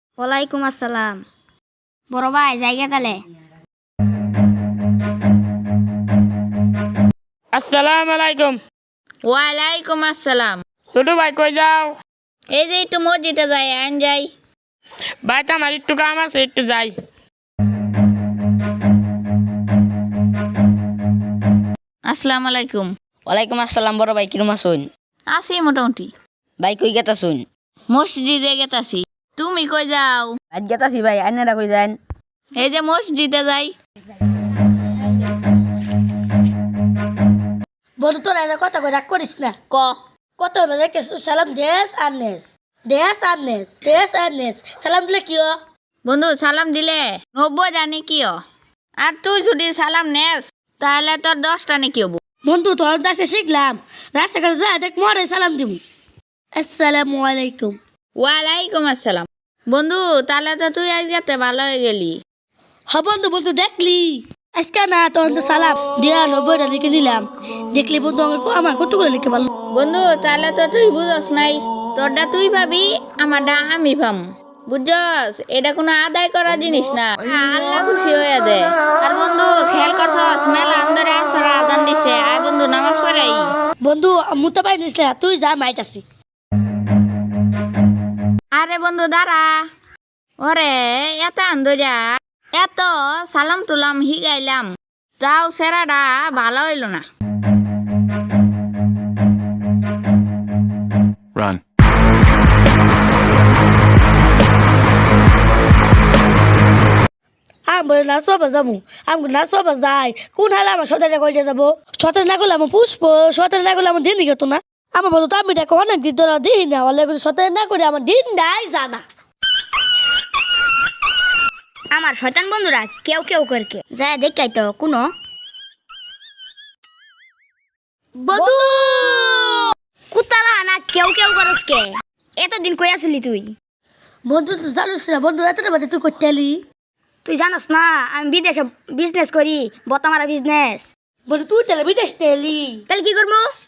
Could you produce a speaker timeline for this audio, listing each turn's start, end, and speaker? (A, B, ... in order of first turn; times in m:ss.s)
0:00.2-0:01.2 A
0:02.1-0:03.2 A
0:07.5-0:08.6 B
0:09.2-0:10.6 C
0:10.9-0:11.9 B
0:12.5-0:14.3 C
0:15.2-0:17.0 B
0:22.0-0:22.9 C
0:23.3-0:24.9 D
0:25.3-0:26.1 C
0:26.6-0:27.4 D
0:27.9-0:30.3 C
0:30.5-0:32.0 D
0:32.6-0:33.7 C
0:38.0-0:39.6 E
0:39.7-0:40.0 C
0:40.4-0:45.5 E
0:46.0-0:48.4 C
0:49.0-0:52.2 C
0:52.4-0:55.8 E
0:56.5-0:57.8 E
0:58.2-1:02.2 C
1:02.9-1:09.5 E
1:09.7-1:23.5 C
1:23.8-1:26.0 E
1:28.5-1:29.6 C
1:30.4-1:37.0 C
1:47.7-1:59.0 E
2:01.9-2:05.1 A
2:08.2-2:09.7 E
2:08.3-2:08.7 A
2:10.1-2:13.5 A
2:14.2-2:16.6 E
2:17.2-2:20.9 A
2:21.3-2:22.8 E
2:22.9-2:23.5 A